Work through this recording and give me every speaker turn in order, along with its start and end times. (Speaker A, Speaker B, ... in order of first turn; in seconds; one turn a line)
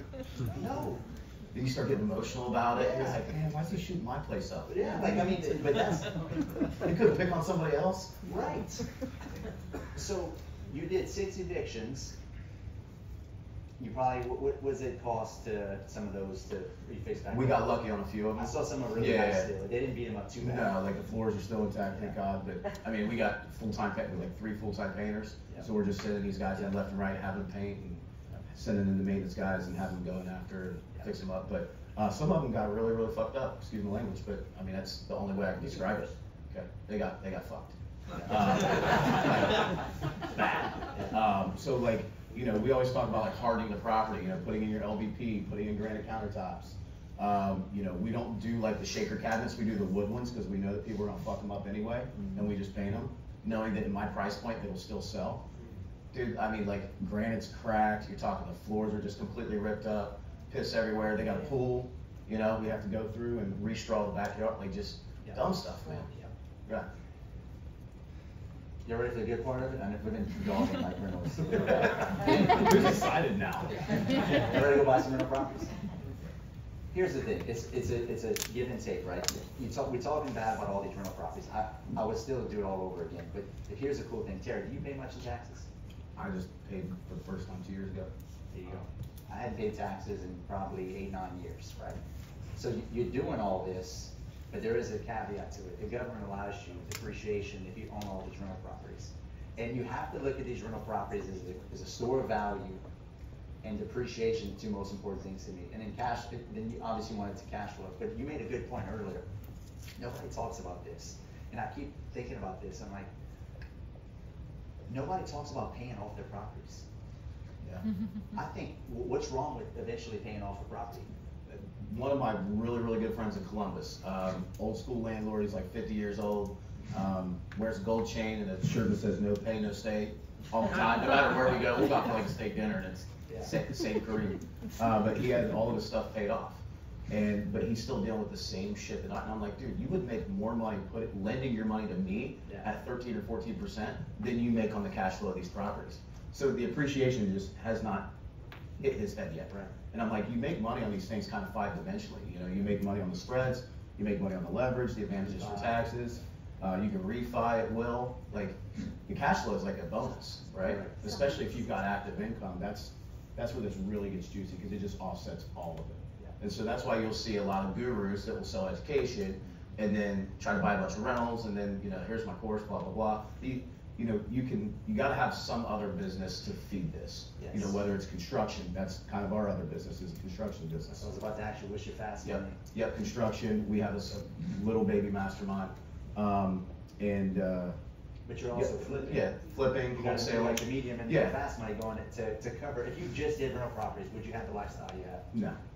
Speaker A: 0.4-1.0
Speaker B: 1.5-5.5
Speaker A: 2.7-3.2
Speaker A: 4.7-6.6
Speaker B: 6.8-8.2
Speaker A: 8.2-8.8
Speaker A: 9.9-12.1
Speaker A: 13.8-17.6
Speaker B: 17.3-19.5
Speaker A: 18.4-20.8
Speaker B: 20.4-55.4
Speaker B: 56.1-66.1
Speaker A: 65.2-66.3
Speaker A: 68.8-73.0
Speaker B: 71.7-74.2
Speaker A: 74.2-75.7
Speaker A: 76.9-85.7
Speaker B: 86.1-88.1
Speaker A: 88.5-92.0
Speaker A: 92.5-102.8
Speaker A: 103.6-109.3
Speaker A: 110.0-113.1
Speaker A: 114.9-116.8
Speaker A: 118.3-121.1
Speaker B: 121.5-148.1
Speaker B: 148.8-181.1
Speaker A: 155.2-155.8
Speaker A: 160.6-161.0
Speaker A: 177.4-177.7
Speaker A: 180.9-182.6
Speaker B: 182.2-187.8
Speaker A: 188.2-189.3
Speaker B: 188.5-191.3
Speaker A: 189.9-195.2
Speaker B: 195.3-195.6